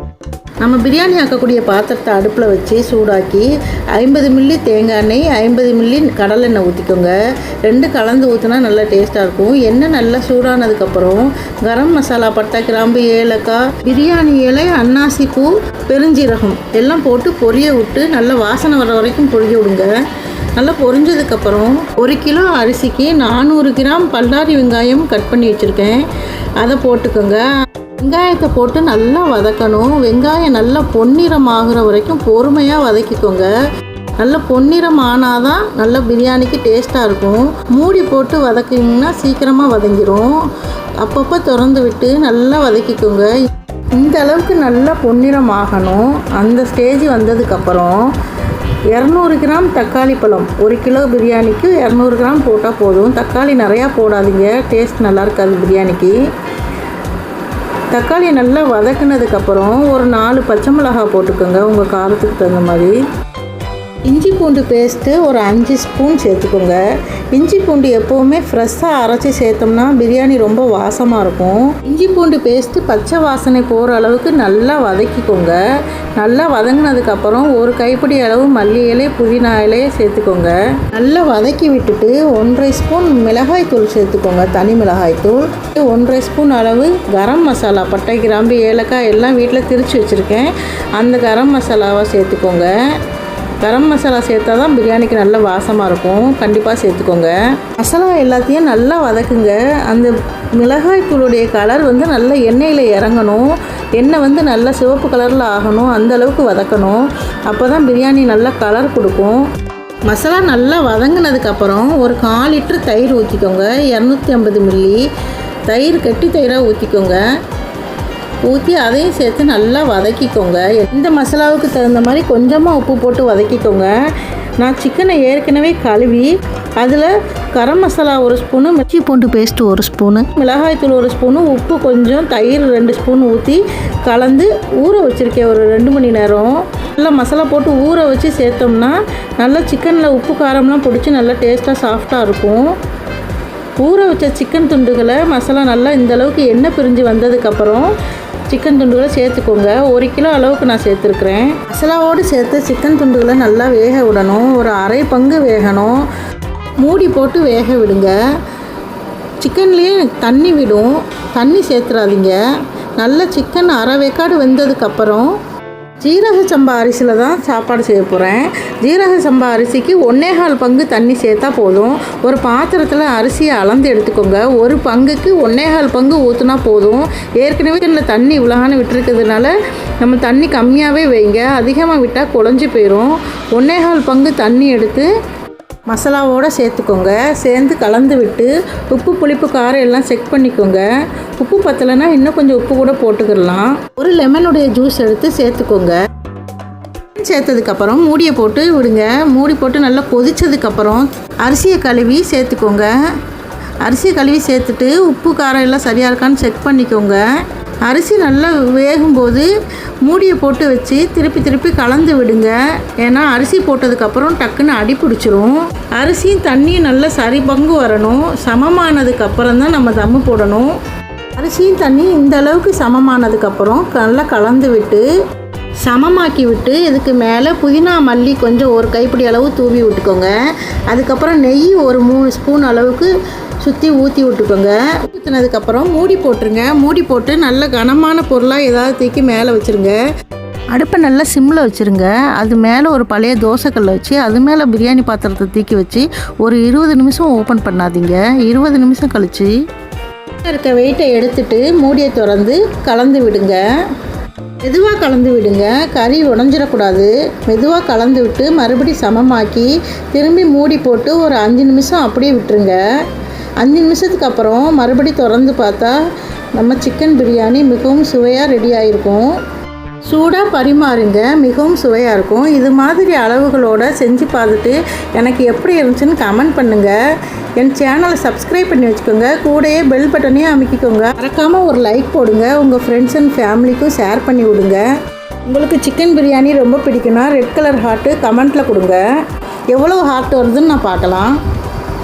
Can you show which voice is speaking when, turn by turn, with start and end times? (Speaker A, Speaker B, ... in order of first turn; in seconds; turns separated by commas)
Speaker A: 0.6-7.1, Speaker A: 7.7-19.9, Speaker A: 20.6-26.1, Speaker A: 26.6-27.5, Speaker A: 28.0-33.5, Speaker A: 34.2-40.4, Speaker A: 41.0-43.3, Speaker A: 44.0-48.1, Speaker A: 48.9-56.1, Speaker A: 57.9-63.0, Speaker A: 64.1-66.8, Speaker A: 67.3-75.6, Speaker A: 76.2-92.7, Speaker A: 93.6-109.4, Speaker A: 110.1-115.0, Speaker A: 115.7-117.2, Speaker A: 118.5-123.9, Speaker A: 124.6-142.7, Speaker A: 143.8-147.9, Speaker A: 148.5-156.1, Speaker A: 156.8-158.2, Speaker A: 159.4-162.4, Speaker A: 163.0-165.3, Speaker A: 166.0-185.1, Speaker A: 185.9-190.9, Speaker A: 191.4-196.0, Speaker A: 197.2-202.9, Speaker A: 203.8-207.2, Speaker A: 207.9-209.5, Speaker A: 210.1-220.7, Speaker A: 221.4-225.1, Speaker A: 225.8-230.3, Speaker A: 230.9-233.1, Speaker A: 233.6-240.0, Speaker A: 240.7-249.5, Speaker A: 250.4-253.6, Speaker A: 254.7-262.8, Speaker A: 263.6-266.0, Speaker A: 266.6-269.4, Speaker A: 270.1-277.0, Speaker A: 277.6-284.9, Speaker A: 285.5-289.0, Speaker A: 289.7-291.4